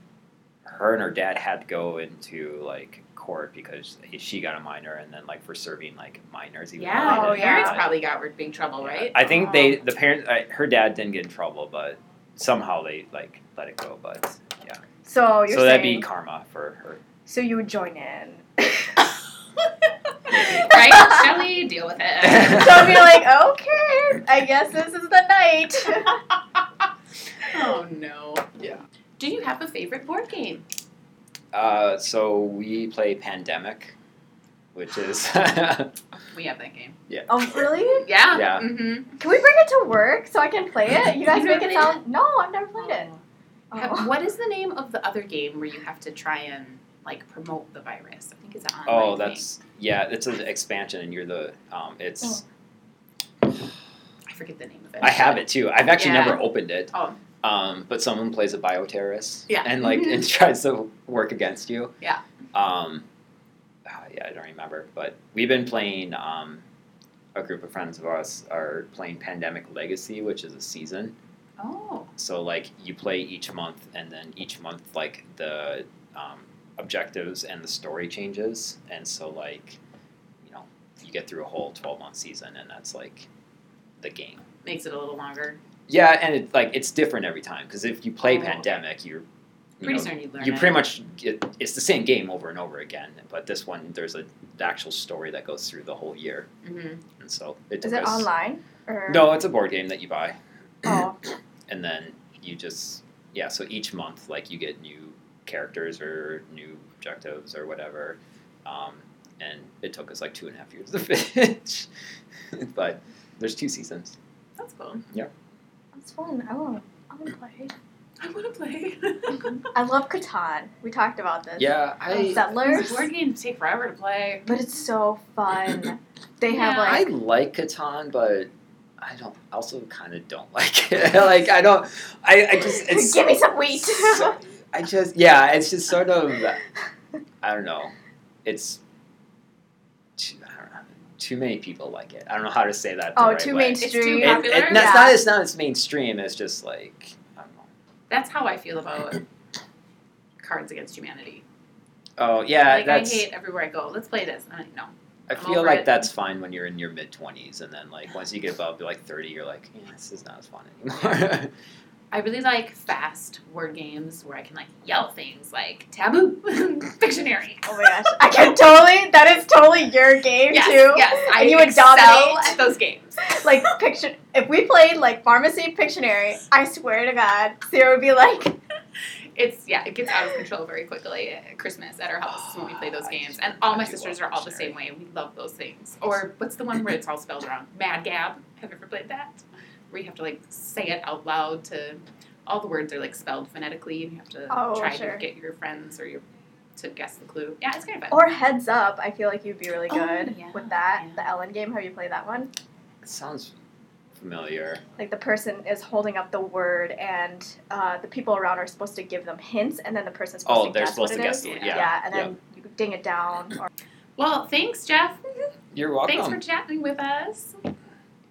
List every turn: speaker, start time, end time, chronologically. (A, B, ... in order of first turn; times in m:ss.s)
0:00.7-0:07.9 A
0:06.8-0:09.8 B
0:07.0-0:07.8 C
0:08.8-0:14.8 A
0:15.0-0:16.1 C
0:15.5-0:17.0 A
0:17.3-0:19.0 C
0:20.3-0:20.8 A
0:20.6-0:22.9 B
0:20.7-0:21.3 C
0:22.4-0:26.2 C
0:27.4-0:28.5 B
0:29.2-0:30.6 B
0:31.5-0:34.0 A
0:34.7-0:36.0 A
0:36.3-0:37.0 B
0:37.1-0:37.4 A
0:37.3-0:38.1 C
0:38.0-0:39.1 B
0:38.3-0:38.8 A
0:39.2-0:43.1 C
0:41.2-0:42.0 B
0:42.8-0:43.2 B
0:43.7-0:44.1 C
0:43.7-0:49.5 B
0:48.9-0:52.4 A
0:54.3-0:57.2 B
0:55.0-0:56.9 A
0:57.4-1:01.9 A
0:59.5-1:00.1 B
1:02.5-1:03.0 A
1:03.9-1:06.6 A
1:07.4-1:11.2 A
1:11.6-1:12.1 B
1:12.2-1:19.8 A
1:20.4-1:23.3 A
1:24.0-1:24.4 A
1:24.6-1:25.6 B
1:25.9-1:29.2 A
1:28.2-1:28.8 B
1:29.8-1:36.5 A
1:29.8-1:30.9 B
1:36.6-1:37.0 B
1:37.2-1:38.3 A
1:37.8-1:39.4 C
1:39.1-1:41.1 A
1:40.8-1:41.2 C
1:41.7-1:51.9 A
1:52.6-1:54.2 A
1:54.6-1:55.0 B
1:55.9-1:57.7 C
1:58.2-1:59.6 B
1:59.7-2:03.1 C
2:01.6-2:02.5 A
2:02.1-2:04.6 B
2:04.5-2:07.1 C
2:06.5-2:07.0 B
2:06.8-2:16.6 A
2:12.5-2:14.4 C
2:17.4-2:17.9 A
2:18.4-2:18.8 A
2:20.2-2:27.7 A
2:23.2-2:25.2 C
2:23.8-2:25.0 B
2:28.1-2:29.2 B
2:30.4-2:31.4 B
2:32.2-2:33.3 A
2:32.7-2:36.1 B
2:35.3-2:41.5 A
2:42.1-2:47.6 B
2:47.6-2:52.6 C
2:50.5-2:53.3 B
2:53.2-2:58.6 C
2:59.4-3:16.2 B
3:02.4-3:04.8 A
3:14.5-3:15.2 C
3:16.8-3:18.2 B
3:18.1-3:22.5 C
3:19.9-3:21.2 B
3:23.0-3:23.5 A
3:24.2-3:24.8 A
3:25.0-3:33.7 C
3:30.5-3:32.3 A
3:31.4-3:31.9 B
3:34.2-3:35.2 B
3:35.7-3:36.4 A
3:36.1-3:37.6 B